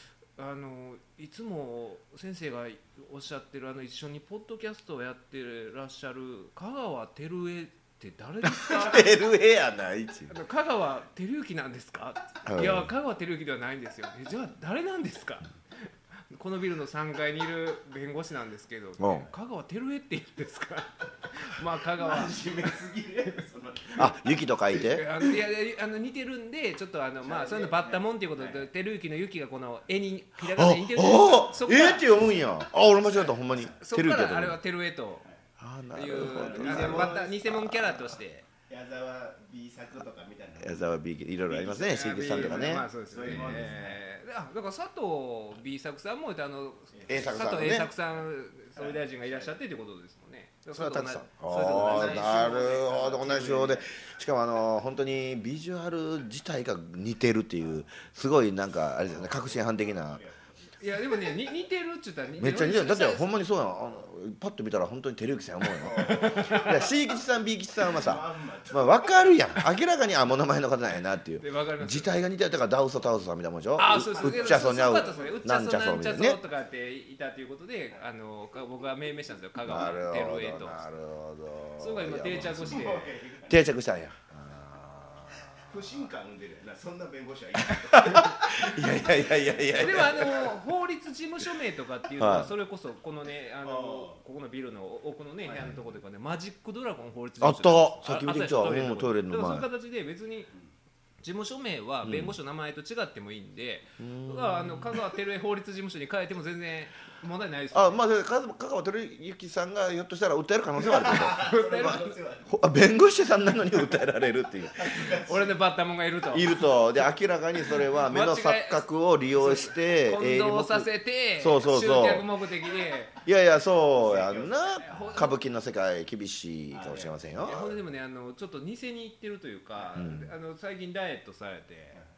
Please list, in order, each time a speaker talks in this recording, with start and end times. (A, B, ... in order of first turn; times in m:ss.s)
0:00.4-0:09.1 A
0:08.4-0:10.3 B
0:10.3-0:22.4 A
0:12.4-0:12.9 B
0:19.0-0:19.3 B
0:22.0-0:24.2 C
0:24.0-0:25.0 B
0:24.9-0:32.0 A
0:27.2-0:28.7 C
0:30.5-0:34.6 B
0:33.3-0:33.8 C
0:33.8-0:35.2 A
0:35.6-0:38.0 B
0:35.9-0:38.4 A
0:36.1-0:37.4 C
0:38.7-0:44.0 C
0:40.6-0:43.7 B
0:42.0-0:52.6 A
0:46.9-0:47.3 C
0:47.1-0:47.9 B
0:48.7-0:49.5 C
0:50.7-1:00.2 B
0:51.6-0:54.0 C
0:59.0-1:00.8 C
1:00.8-1:03.3 A
1:02.4-1:16.4 B
1:05.8-1:07.1 C
1:06.0-1:06.7 A
1:07.8-1:09.4 C
1:11.4-1:12.1 A
1:13.8-1:20.8 A
1:13.8-1:15.5 C
1:19.6-1:22.9 B
1:21.8-1:23.1 A
1:22.4-1:23.7 C
1:23.5-1:25.8 B
1:25.6-1:30.5 C
1:27.7-1:30.5 B
1:29.8-1:40.5 A
1:32.2-1:32.5 B
1:33.6-1:34.2 C
1:35.4-1:35.8 C
1:37.4-1:39.7 B
1:41.2-1:48.0 A
1:42.0-1:42.4 B
1:44.0-1:45.0 B
1:47.7-1:55.1 B
1:50.8-1:52.6 C
1:51.3-1:52.2 A
1:54.7-1:55.6 C
1:55.2-1:56.8 A
1:56.3-2:02.3 B
1:57.9-2:03.1 A
2:03.2-2:07.7 B
2:03.7-2:05.2 C
2:04.8-2:05.4 A
2:06.7-2:07.6 C
2:07.4-2:12.0 A
2:10.0-2:10.3 B